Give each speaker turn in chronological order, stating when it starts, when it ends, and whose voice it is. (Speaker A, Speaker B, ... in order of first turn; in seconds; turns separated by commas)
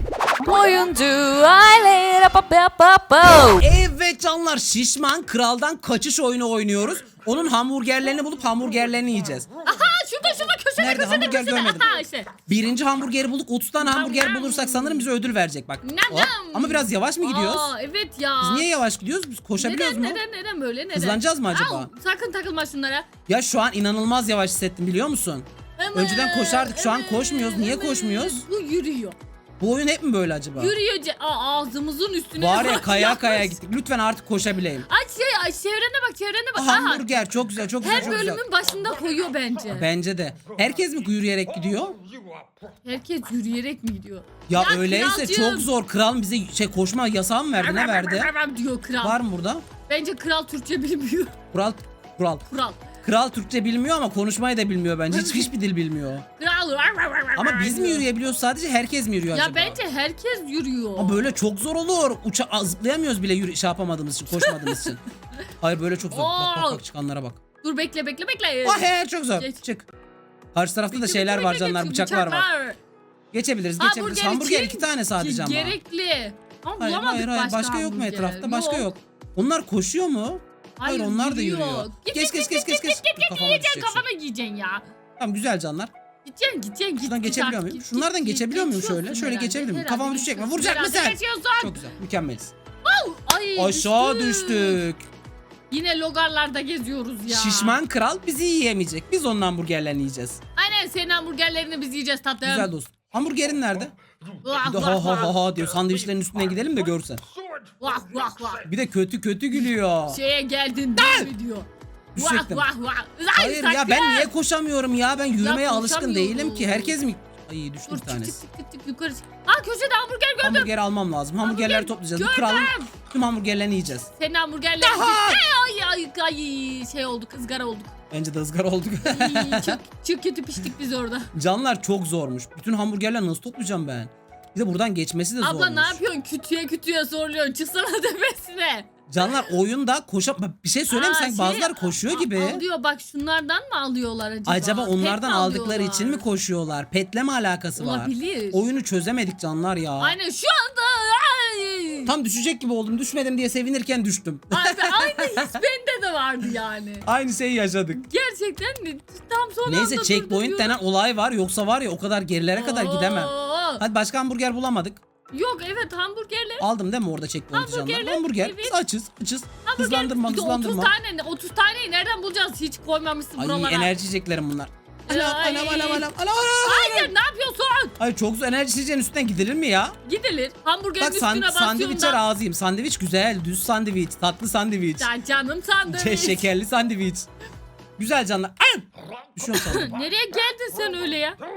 Speaker A: 0.4-3.6, Speaker B: 3.6-9.5, Speaker C: 9.6-12.3, Speaker B: 10.8-17.7, Speaker C: 13.8-15.1, Speaker C: 15.8-18.7, Speaker B: 18.4-20.2, Speaker C: 19.6-23.1, Speaker B: 20.9-21.9, Speaker B: 23.3-28.4, Speaker C: 25.8-29.2, Speaker B: 29.6-30.7, Speaker C: 30.6-33.6, Speaker B: 32.4-34.9, Speaker C: 34.9-37.1, Speaker B: 36.5-38.4, Speaker C: 37.8-39.9, Speaker B: 39.7-42.0, Speaker C: 42.8-45.7, Speaker B: 44.5-48.3, Speaker C: 47.6-49.2, Speaker B: 49.0-49.6, Speaker C: 49.9-51.3, Speaker B: 51.5-52.5, Speaker C: 52.5-52.8, Speaker B: 53.0-56.3, Speaker C: 55.1-55.5, Speaker C: 56.4-58.0, Speaker B: 57.3-59.8, Speaker C: 59.3-61.3, Speaker B: 61.0-65.0, Speaker C: 64.3-64.9, Speaker B: 65.6-67.4, Speaker C: 66.1-66.8, Speaker C: 67.6-69.6, Speaker B: 68.6-69.9, Speaker B: 70.5-72.5, Speaker C: 70.9-72.8, Speaker B: 73.3-75.8, Speaker C: 73.8-78.9, Speaker B: 76.8-84.0, Speaker C: 80.8-84.8, Speaker B: 85.2-85.9, Speaker C: 86.2-91.9, Speaker B: 87.0-92.5, Speaker C: 92.8-94.8, Speaker B: 93.6-95.0, Speaker C: 95.7-97.8, Speaker B: 97.3-100.4, Speaker C: 100.6-102.7, Speaker B: 102.4-103.9, Speaker C: 104.4-105.4, Speaker B: 104.6-107.2, Speaker C: 107.8-108.7, Speaker B: 108.6-110.2, Speaker C: 109.6-114.3, Speaker B: 111.0-111.3, Speaker B: 112.1-112.7, Speaker B: 113.3-118.4, Speaker C: 115.4-116.9, Speaker C: 117.9-120.7, Speaker B: 120.4-124.1, Speaker C: 121.4-122.9, Speaker C: 124.2-127.9, Speaker B: 124.8-125.4, Speaker B: 128.1-129.8, Speaker C: 129.0-131.3, Speaker B: 131.3-136.0, Speaker C: 135.4-139.5, Speaker B: 139.1-142.7, Speaker C: 140.9-146.2, Speaker B: 144.5-150.2, Speaker C: 147.8-148.7, Speaker C: 150.0-152.1, Speaker B: 152.1-155.6, Speaker C: 154.5-157.1, Speaker B: 157.0-158.0, Speaker C: 157.9-160.8, Speaker B: 159.7-165.0, Speaker C: 162.5-163.8, Speaker C: 165.3-166.7, Speaker B: 166.6-170.9, Speaker C: 167.5-168.8, Speaker C: 169.6-173.9, Speaker B: 173.4-177.1, Speaker C: 175.1-176.1, Speaker C: 176.6-177.9, Speaker B: 178.0-180.0, Speaker C: 180.0-182.2, Speaker B: 181.0-185.1, Speaker C: 185.0-186.5, Speaker B: 185.8-187.3, Speaker B: 188.0-190.0, Speaker C: 189.4-191.4